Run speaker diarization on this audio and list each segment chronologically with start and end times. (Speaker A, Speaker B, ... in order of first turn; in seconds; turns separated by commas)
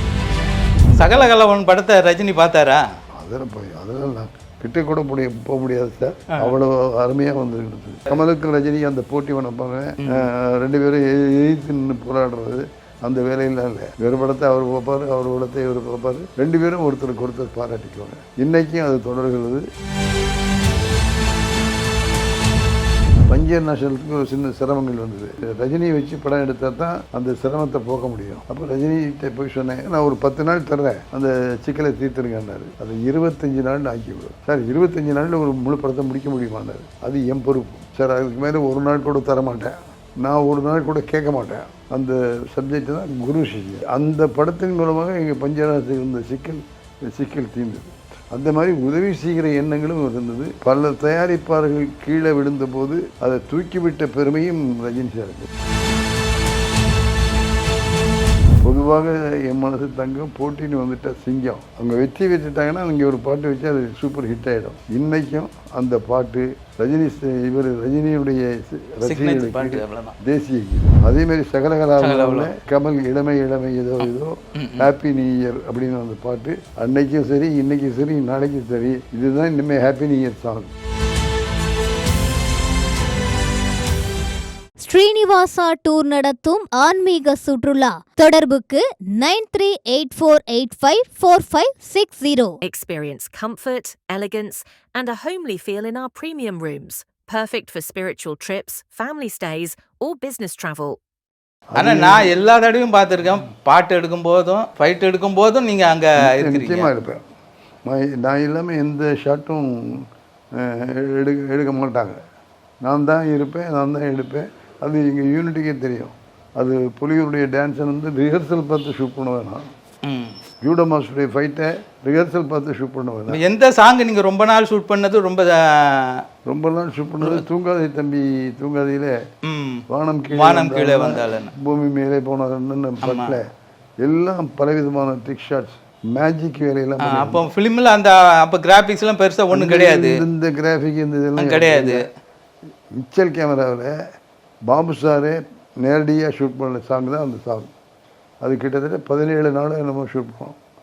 Speaker A: 0.9-2.8, Speaker B: 3.2-19.7, Speaker B: 23.3-55.5, Speaker B: 58.6-80.7, Speaker A: 69.0-70.2, Speaker A: 72.0-72.5, Speaker A: 74.6-74.9, Speaker C: 84.8-92.6, Speaker D: 92.6-101.0, Speaker B: 101.7-102.3, Speaker A: 101.8-106.9, Speaker B: 106.2-107.2, Speaker B: 107.9-110.0, Speaker B: 110.6-112.2, Speaker B: 112.8-119.7, Speaker A: 120.0-120.4, Speaker B: 120.6-123.4, Speaker A: 123.3-126.2, Speaker B: 126.5-129.2, Speaker A: 129.5-131.5, Speaker B: 129.9-133.5, Speaker A: 133.1-133.4, Speaker B: 134.0-137.5, Speaker A: 137.0-140.2, Speaker B: 139.5-142.0, Speaker A: 141.4-142.0, Speaker B: 142.9-143.9, Speaker B: 144.7-147.7, Speaker B: 148.4-150.6